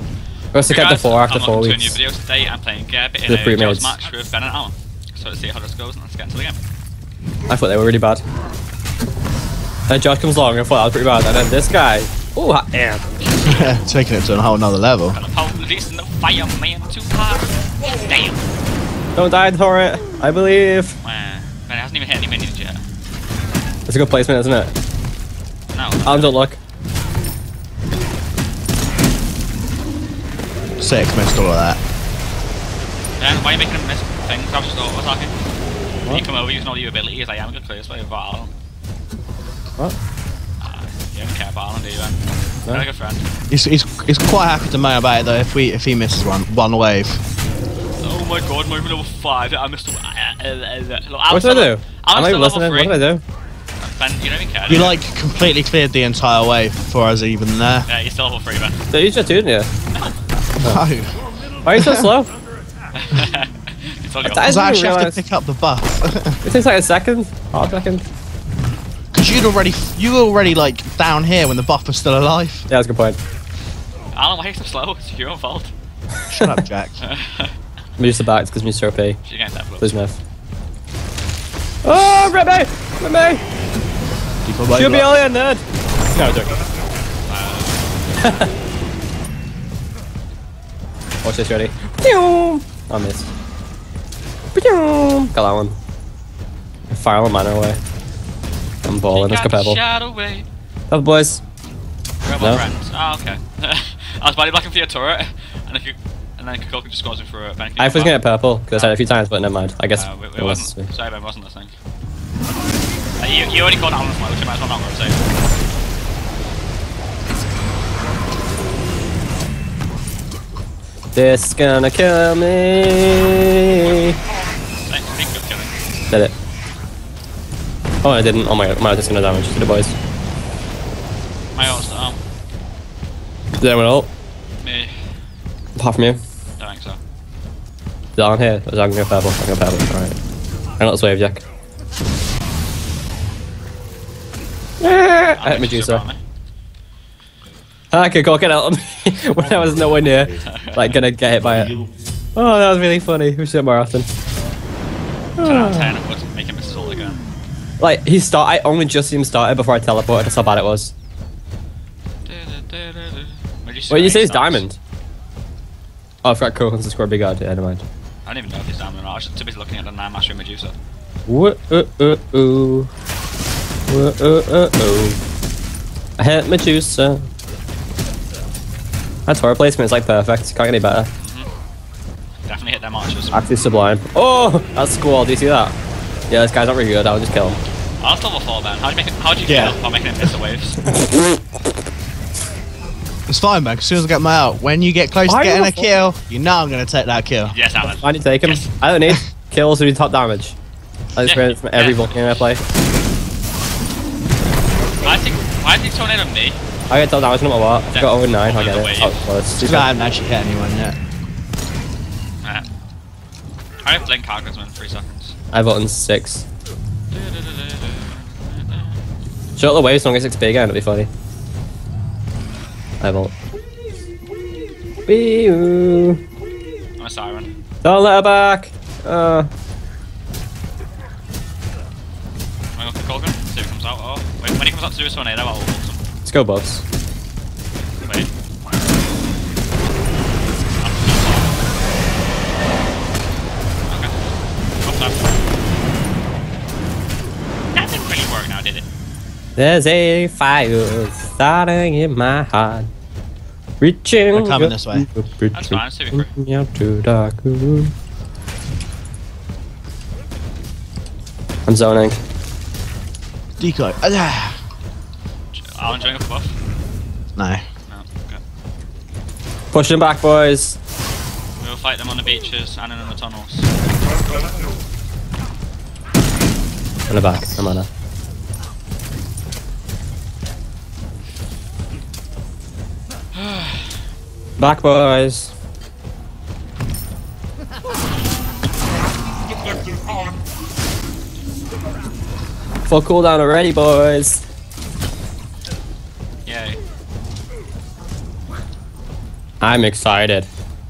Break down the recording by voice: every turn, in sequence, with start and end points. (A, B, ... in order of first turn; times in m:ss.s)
0:00.5-0:02.0 A
0:00.6-0:06.6 B
0:03.2-0:04.0 A
0:07.5-0:08.2 A
0:09.9-0:13.2 A
0:13.2-0:13.8 B
0:13.4-0:15.2 C
0:15.1-0:18.4 B
0:19.1-0:21.0 A
0:21.0-0:22.8 B
0:23.9-0:24.7 A
0:25.7-0:26.4 B
0:26.0-0:26.6 A
0:30.8-0:31.8 C
0:33.2-0:35.3 B
0:36.1-0:38.5 B
0:40.6-0:43.3 B
0:43.5-0:47.2 C
0:48.0-0:53.0 B
0:51.3-0:53.2 A
0:53.8-0:55.0 B
0:54.7-0:57.9 C
0:57.9-0:58.8 B
0:58.9-0:59.7 A
1:00.6-1:01.2 C
1:01.6-1:02.3 A
1:01.7-1:02.1 C
1:02.9-1:04.5 B
1:04.2-1:05.2 A
1:04.4-1:06.4 C
1:06.4-1:08.0 A
1:09.1-1:12.7 C
1:12.7-1:13.2 A
1:14.1-1:15.7 B
1:16.3-1:17.0 C
1:17.0-1:17.5 B
1:18.0-1:19.2 A
1:19.2-1:19.9 B
1:19.8-1:20.2 A
1:21.8-1:23.4 A
1:24.4-1:25.1 C
1:24.7-1:26.5 A
1:27.3-1:27.8 B
1:28.2-1:28.5 A
1:31.2-1:33.3 A
1:34.5-1:35.8 A
1:36.9-1:37.8 A
1:38.8-1:39.8 A
1:39.1-1:40.5 B
1:40.9-1:41.4 A
1:42.2-1:48.2 B
1:47.8-1:50.9 A
1:48.7-1:49.0 B
1:50.0-1:51.7 B
1:53.2-1:55.2 B
2:01.1-2:04.1 A
2:04.8-2:05.7 B
2:08.0-2:10.0 A
2:11.5-2:12.2 B
2:13.6-2:14.1 A
2:14.6-2:14.9 B
2:15.8-2:16.2 A
2:16.6-2:17.0 B
2:18.2-2:20.2 A
2:20.8-2:21.4 A
2:24.8-2:26.0 A
2:25.3-2:26.2 B
2:27.9-2:31.7 A
2:30.4-2:31.0 B
2:32.4-2:34.1 A
2:35.4-2:35.9 A
2:35.4-2:37.2 B
2:37.8-2:40.9 A
2:42.2-2:44.6 B
2:43.9-2:44.8 A
2:46.2-2:47.8 A
2:48.2-2:50.7 B
2:51.3-2:52.9 A
2:53.9-2:55.2 A
2:56.2-2:57.3 A
2:59.2-3:01.1 A
3:01.1-3:01.5 B
3:02.4-3:03.4 B
3:03.3-3:05.7 A
3:06.3-3:07.6 A
3:08.0-3:10.8 B
3:09.4-3:09.8 C
3:13.3-3:17.5 C
3:15.2-3:15.9 A
3:17.4-3:18.7 B
3:17.8-3:20.5 A
3:21.2-3:22.6 A
3:21.2-3:22.5 B
3:25.0-3:26.6 B
3:26.9-3:29.9 A
3:27.9-3:29.3 B
3:29.6-3:31.0 C
3:32.4-3:32.7 B
3:33.8-3:35.3 B
3:35.5-3:36.4 A
3:37.1-3:39.0 B
3:39.6-3:41.1 A
3:43.0-3:43.3 A
3:45.1-3:46.2 A
3:47.0-3:47.5 B
3:47.8-3:49.5 A
3:52.8-3:56.0 B
3:56.2-3:56.8 A
3:58.0-3:58.3 B
4:00.8-4:01.5 B
4:03.9-4:04.1 B
4:04.8-4:05.3 B
4:07.7-4:08.8 B
4:09.6-4:12.9 A
4:13.8-4:17.9 A
4:14.3-4:15.1 C
4:15.5-4:16.3 B
4:21.7-4:22.2 A
4:23.6-4:24.6 C
4:25.5-4:26.5 B
4:27.3-4:27.6 C
4:27.9-4:28.4 B
4:29.7-4:30.8 A
4:31.6-4:33.7 B
4:37.1-4:37.9 A
4:43.4-4:43.9 B
4:44.6-4:45.5 A
4:52.8-4:54.4 A
4:56.4-4:56.8 B
4:59.6-5:00.5 A